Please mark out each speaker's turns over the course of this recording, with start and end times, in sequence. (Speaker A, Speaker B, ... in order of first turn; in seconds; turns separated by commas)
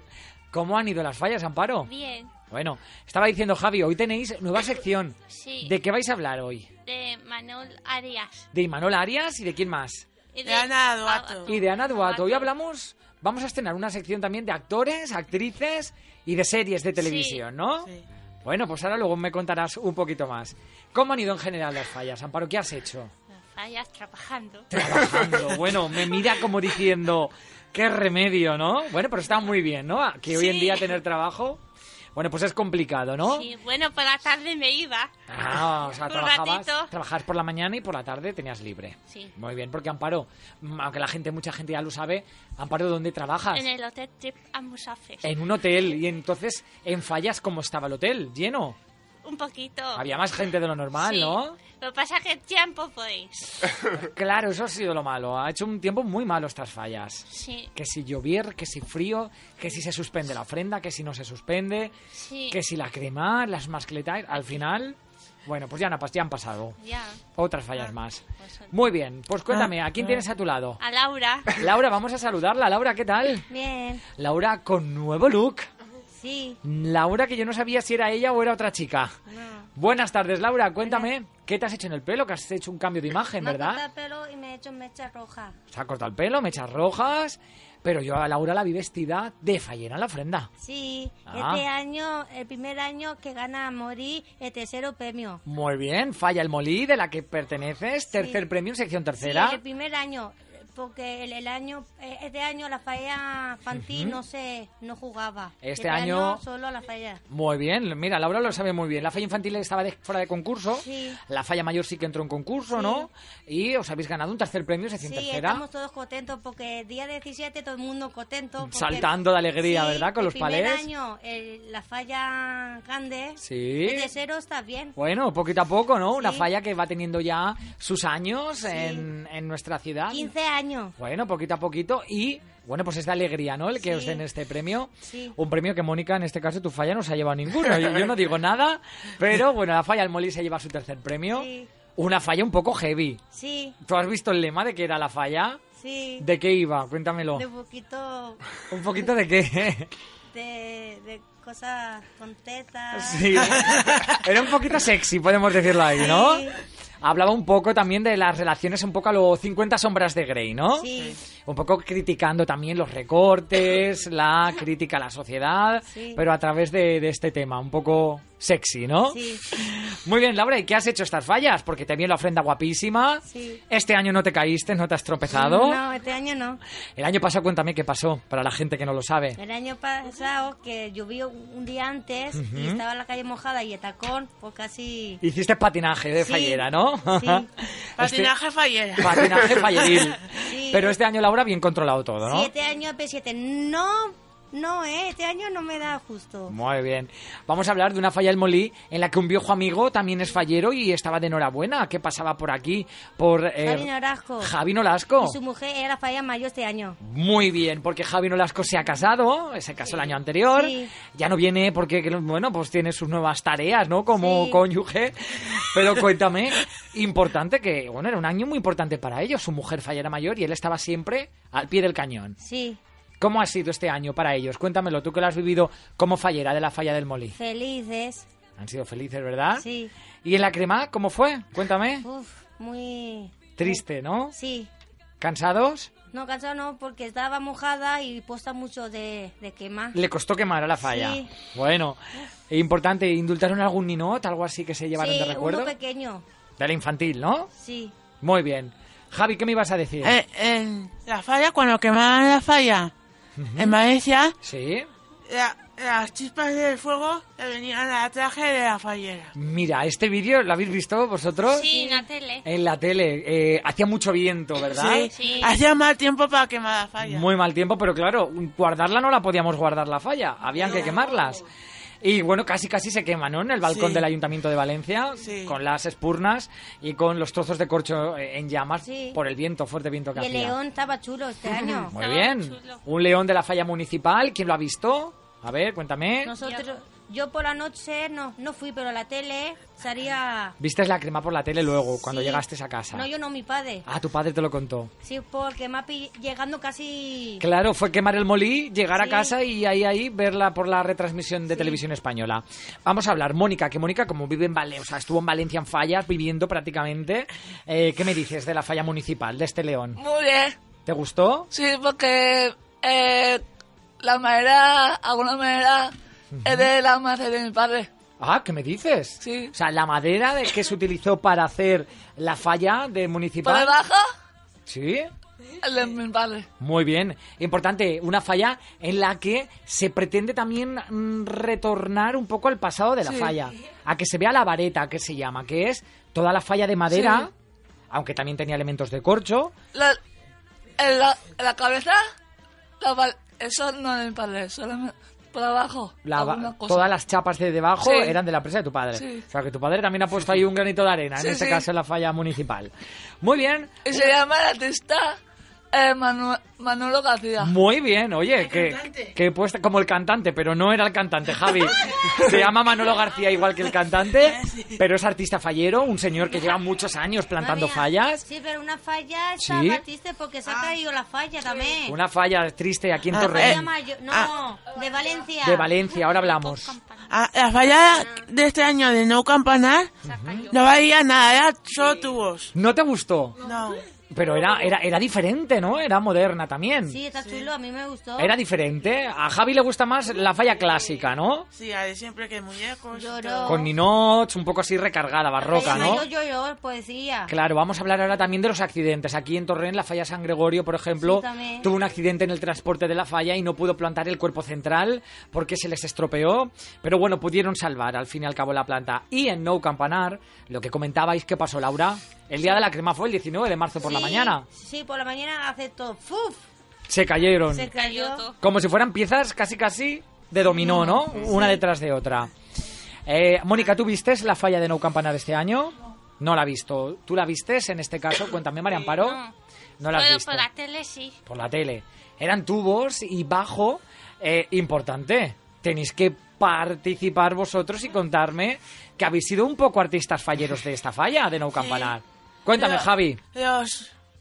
Speaker A: 0.5-1.9, Speaker B: 1.9-2.3, Speaker A: 2.5-6.7, Speaker B: 5.3-5.7, Speaker B: 6.8-8.4, Speaker A: 8.5-10.1, Speaker B: 10.3-12.5, Speaker C: 10.4-11.5, Speaker A: 11.4-17.9, Speaker B: 17.0-17.4, Speaker A: 18.4-23.1, Speaker B: 23.4-24.7, Speaker A: 24.7-31.6, Speaker C: 30.3-30.9, Speaker A: 32.1-33.5, Speaker B: 33.2-35.1, Speaker A: 35.3-43.7, Speaker B: 36.0-36.9, Speaker B: 43.5-45.3, Speaker A: 45.2-48.8, Speaker B: 49.2-50.0, Speaker A: 49.9-51.6, Speaker B: 51.0-53.7, Speaker A: 53.9-62.0, Speaker B: 57.3-57.7, Speaker B: 62.1-62.6, Speaker A: 62.5-66.8, Speaker B: 66.8-67.2, Speaker A: 67.3-70.8, Speaker B: 68.4-68.7, Speaker B: 70.8-71.5, Speaker A: 71.5-73.5, Speaker D: 73.5-74.0, Speaker A: 74.2-75.7, Speaker D: 76.2-76.6, Speaker A: 76.6-79.1, Speaker D: 79.3-79.7, Speaker A: 79.8-83.8, Speaker D: 83.4-85.5, Speaker A: 85.7-90.5, Speaker D: 90.6-95.4, Speaker A: 91.3-91.6, Speaker A: 95.5-99.6, Speaker D: 98.1-98.4, Speaker D: 99.2-107.2, Speaker A: 103.7-104.2, Speaker A: 105.6-106.4, Speaker A: 107.3-115.6, Speaker D: 110.8-111.2, Speaker D: 112.7-113.1, Speaker D: 115.0-124.9, Speaker A: 118.6-120.9, Speaker A: 123.4-124.1, Speaker A: 125.0-130.3, Speaker D: 126.2-126.5, Speaker D: 128.7-129.0, Speaker D: 130.1-130.9, Speaker A: 131.0-143.2, Speaker D: 133.8-134.2, Speaker D: 135.0-135.3, Speaker D: 141.3-141.7, Speaker D: 143.3-143.8, Speaker A: 143.8-145.6, Speaker D: 145.8-146.2, Speaker A: 146.2-147.4, Speaker D: 147.3-148.4, Speaker A: 148.7-149.9, Speaker D: 150.3-153.6, Speaker A: 152.9-175.8, Speaker D: 156.0-156.6, Speaker D: 160.7-161.2, Speaker D: 165.9-166.2, Speaker D: 169.1-169.4, Speaker D: 173.2-173.6, Speaker D: 175.3-176.6, Speaker A: 176.9-179.4, Speaker D: 179.4-185.2, Speaker A: 182.3-182.8, Speaker A: 185.2-188.3, Speaker D: 186.2-187.5, Speaker C: 188.0-190.1, Speaker A: 189.0-192.5, Speaker D: 190.4-190.9, Speaker D: 192.2-196.5, Speaker A: 196.5-203.9, Speaker D: 203.6-204.5, Speaker A: 204.4-205.4, Speaker D: 205.2-207.0, Speaker A: 207.0-222.3, Speaker D: 210.5-210.9, Speaker D: 214.2-214.6, Speaker D: 222.4-222.8, Speaker A: 223.2-227.4, Speaker D: 227.3-228.3, Speaker A: 228.6-229.6, Speaker D: 229.6-229.9, Speaker A: 230.2-232.1, Speaker D: 232.0-233.8, Speaker A: 233.6-234.3, Speaker D: 234.3-234.7, Speaker A: 235.2-235.9, Speaker D: 236.1-240.0, Speaker A: 239.9-245.7, Speaker D: 240.8-241.3, Speaker D: 245.0-246.2, Speaker A: 246.6-247.5, Speaker D: 247.6-247.9, Speaker A: 248.2-250.2, Speaker C: 250.0-252.9, Speaker A: 253.4-253.8, Speaker C: 253.6-254.3, Speaker A: 254.4-254.9, Speaker C: 255.3-259.3, Speaker A: 259.4-261.7, Speaker B: 261.5-262.4, Speaker D: 261.7-262.1, Speaker A: 262.4-265.1, Speaker C: 264.6-267.3, Speaker B: 265.1-265.5, Speaker A: 267.0-271.4, Speaker C: 270.6-271.0, Speaker A: 272.0-280.6, Speaker C: 273.7-274.1, Speaker C: 275.2-275.6, Speaker D: 278.8-279.2, Speaker D: 280.1-281.9, Speaker A: 281.9-286.3, Speaker B: 281.9-282.8, Speaker D: 286.2-290.6, Speaker B: 286.4-286.7, Speaker A: 290.6-293.1, Speaker D: 292.1-293.9, Speaker A: 293.9-294.9, Speaker D: 295.0-297.4, Speaker A: 297.4-310.0, Speaker D: 299.0-299.3, Speaker E: 310.0-310.6, Speaker A: 310.9-311.5, Speaker E: 311.5-313.4, Speaker E: 314.0-315.9, Speaker A: 316.3-316.7, Speaker E: 316.4-317.9, Speaker A: 318.2-323.7, Speaker E: 319.2-319.5, Speaker E: 323.4-324.1, Speaker A: 324.7-325.1, Speaker E: 325.6-326.5, Speaker A: 326.6-337.3, Speaker E: 333.1-333.3, Speaker E: 336.9-337.3, Speaker A: 337.9-339.5, Speaker E: 339.7-340.0, Speaker E: 340.8-342.0, Speaker E: 342.8-346.9, Speaker A: 346.0-352.7, Speaker E: 347.8-348.2, Speaker E: 348.9-349.2, Speaker E: 351.2-351.6, Speaker A: 353.2-353.9, Speaker E: 353.8-355.2, Speaker E: 355.7-357.5, Speaker A: 357.4-368.2, Speaker C: 358.4-359.1, Speaker C: 364.2-364.8, Speaker D: 367.4-372.0, Speaker A: 369.4-369.8, Speaker C: 370.4-370.7, Speaker A: 371.9-373.7, Speaker C: 373.1-374.3, Speaker D: 373.2-375.7, Speaker A: 375.4-376.8, Speaker B: 375.9-377.1, Speaker C: 377.1-379.9, Speaker A: 380.0-380.5, Speaker C: 380.5-382.5, Speaker A: 382.5-383.4, Speaker C: 383.4-383.8, Speaker A: 384.1-387.0, Speaker D: 386.9-388.3, Speaker A: 388.2-391.5, Speaker C: 391.5-393.7, Speaker D: 392.9-393.7, Speaker A: 393.4-396.1, Speaker D: 395.4-397.3, Speaker C: 395.7-396.0, Speaker A: 397.3-414.5, Speaker D: 401.0-401.7, Speaker D: 413.8-416.4, Speaker A: 416.9-417.7, Speaker D: 417.5-418.2, Speaker B: 417.7-418.3, Speaker A: 418.4-422.3, Speaker D: 420.4-421.6, Speaker A: 423.1-429.2, Speaker B: 428.9-429.3, Speaker A: 429.8-430.5, Speaker B: 429.9-431.2, Speaker A: 431.2-443.2, Speaker C: 441.6-441.9, Speaker C: 442.5-443.9